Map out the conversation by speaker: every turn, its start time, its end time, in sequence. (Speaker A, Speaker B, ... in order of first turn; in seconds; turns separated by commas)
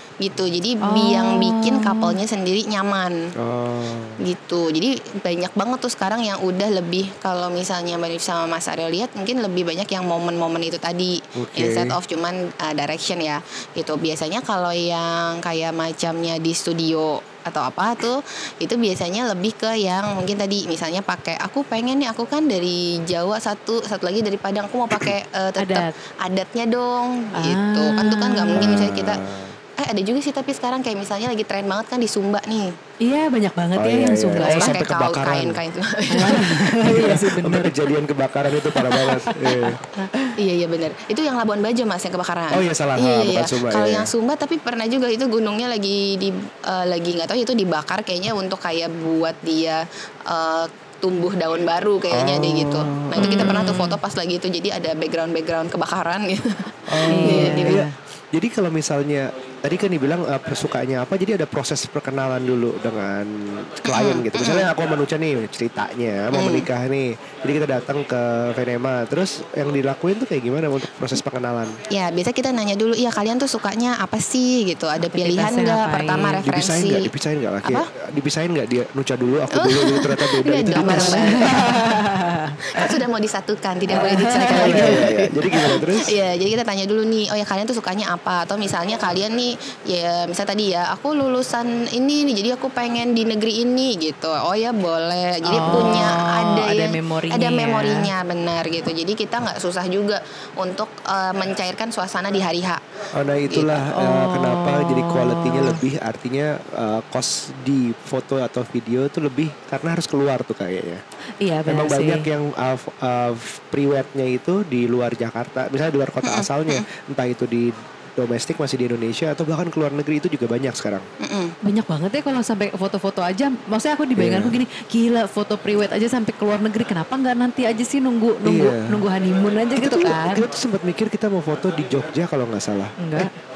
Speaker A: 0.2-3.2, Speaker B: 0.8-2.1, Speaker C: 3.4-4.2, Speaker A: 4.2-29.2, Speaker C: 11.3-12.0, Speaker B: 25.6-25.9, Speaker B: 27.3-28.9, Speaker C: 28.5-29.6, Speaker A: 29.8-32.7, Speaker B: 33.0-34.7, Speaker C: 33.8-35.6, Speaker A: 34.3-36.6, Speaker B: 36.1-37.7, Speaker C: 36.8-40.3, Speaker B: 38.7-40.1, Speaker A: 40.4-57.8, Speaker C: 42.5-44.1, Speaker C: 52.1-53.6, Speaker B: 53.2-54.0, Speaker C: 56.9-71.8, Speaker B: 57.1-57.9, Speaker A: 63.9-64.7, Speaker A: 66.3-66.7, Speaker A: 71.9-77.1, Speaker B: 75.1-76.4, Speaker C: 76.4-81.4, Speaker A: 79.5-82.0, Speaker B: 80.8-83.0, Speaker A: 82.7-102.8, Speaker B: 83.9-85.1, Speaker C: 84.3-86.1, Speaker B: 95.5-98.1, Speaker C: 103.1-111.0, Speaker A: 103.5-103.8, Speaker B: 104.0-105.8, Speaker B: 111.4-112.3, Speaker C: 111.7-121.0, Speaker A: 116.2-116.8, Speaker A: 121.2-121.5, Speaker B: 121.6-130.4, Speaker C: 124.2-124.6, Speaker C: 128.4-129.0, Speaker C: 129.8-133.3, Speaker B: 133.0-133.3